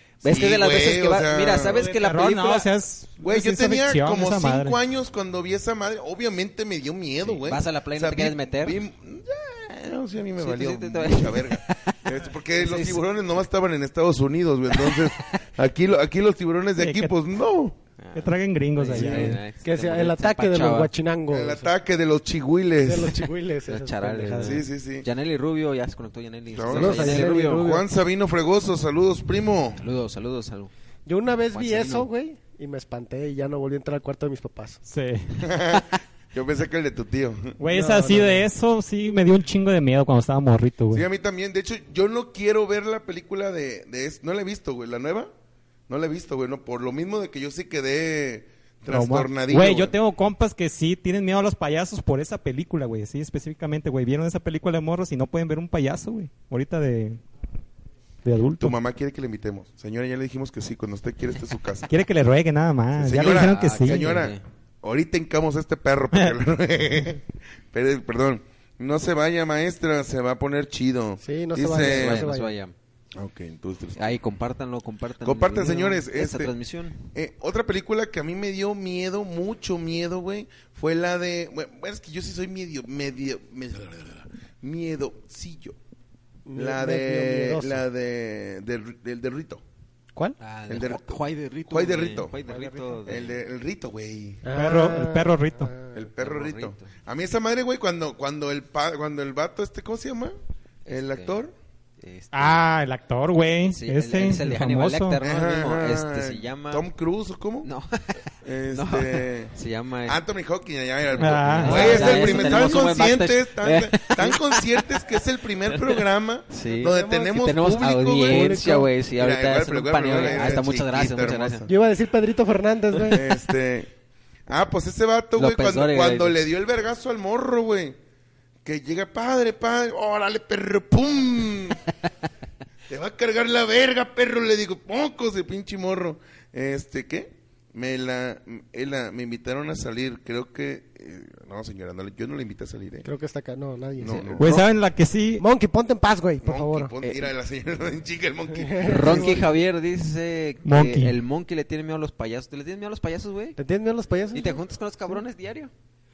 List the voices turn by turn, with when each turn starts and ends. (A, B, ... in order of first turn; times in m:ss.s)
0:00.2-0:02.7 A
0:00.2-0:01.9 B
0:01.8-0:04.8 C
0:03.2-0:17.8 B
0:07.3-0:08.8 A
0:10.4-0:13.0 A
0:14.7-0:15.4 A
0:16.8-0:17.1 C
0:18.0-0:20.9 A
0:18.2-0:19.4 C
0:18.9-0:21.7 D
0:21.3-0:23.2 B
0:22.8-0:24.6 D
0:23.7-0:27.7 A
0:24.4-0:25.1 B
0:26.5-0:29.8 B
0:26.7-0:27.9 D
0:29.8-0:30.7 A
0:31.1-0:34.8 D
0:31.5-0:32.1 A
0:34.9-0:35.4 C
0:35.4-0:37.6 B
0:37.6-0:41.1 C
0:37.7-0:38.4 D
0:40.9-0:45.3 B
0:45.9-0:49.9 B
0:48.9-0:57.2 C
0:58.2-0:58.8 C
0:58.6-1:01.9 B
1:01.9-1:04.3 C
1:03.0-1:12.3 B
1:03.2-1:04.4 A
1:11.2-1:12.5 D
1:11.7-1:12.7 A
1:13.2-1:14.1 B
1:14.0-1:17.1 A
1:15.2-1:16.5 B
1:17.1-1:25.8 B
1:26.5-1:27.8 D
1:26.5-1:29.6 B
1:30.4-1:33.4 A
1:30.7-1:32.4 B
1:32.5-1:32.8 D
1:33.0-1:34.4 B
1:34.4-1:35.9 D
1:34.5-1:35.7 C
1:35.9-1:40.4 B
1:36.2-1:36.9 A
1:40.8-1:41.4 A
1:40.9-1:41.5 B
1:42.0-1:42.7 A
1:42.3-1:45.2 C
1:43.7-1:46.9 A
1:45.2-1:47.7 B
1:47.6-1:50.2 A
1:48.4-1:49.5 B
1:50.1-1:58.6 B
1:51.1-1:55.1 A
1:51.2-1:52.5 C
1:51.6-1:52.6 D
1:55.7-2:01.7 A
1:56.6-1:58.9 D
1:59.2-2:01.7 B
2:00.1-2:00.6 D
2:01.7-2:03.2 D
2:03.1-2:03.9 B
2:04.5-2:08.0 B
2:05.4-2:06.4 A
2:08.6-2:11.8 B
2:12.9-2:23.1 B
2:23.0-2:24.4 D
2:24.0-2:24.6 B
2:24.0-2:24.5 A
2:24.4-2:25.4 C
2:25.4-2:26.9 D
2:26.4-2:29.4 B
2:27.0-2:27.3 A
2:28.5-2:29.4 D
2:28.8-2:33.6 A
2:30.6-2:31.2 C
2:33.6-2:34.6 D
2:34.3-2:35.7 A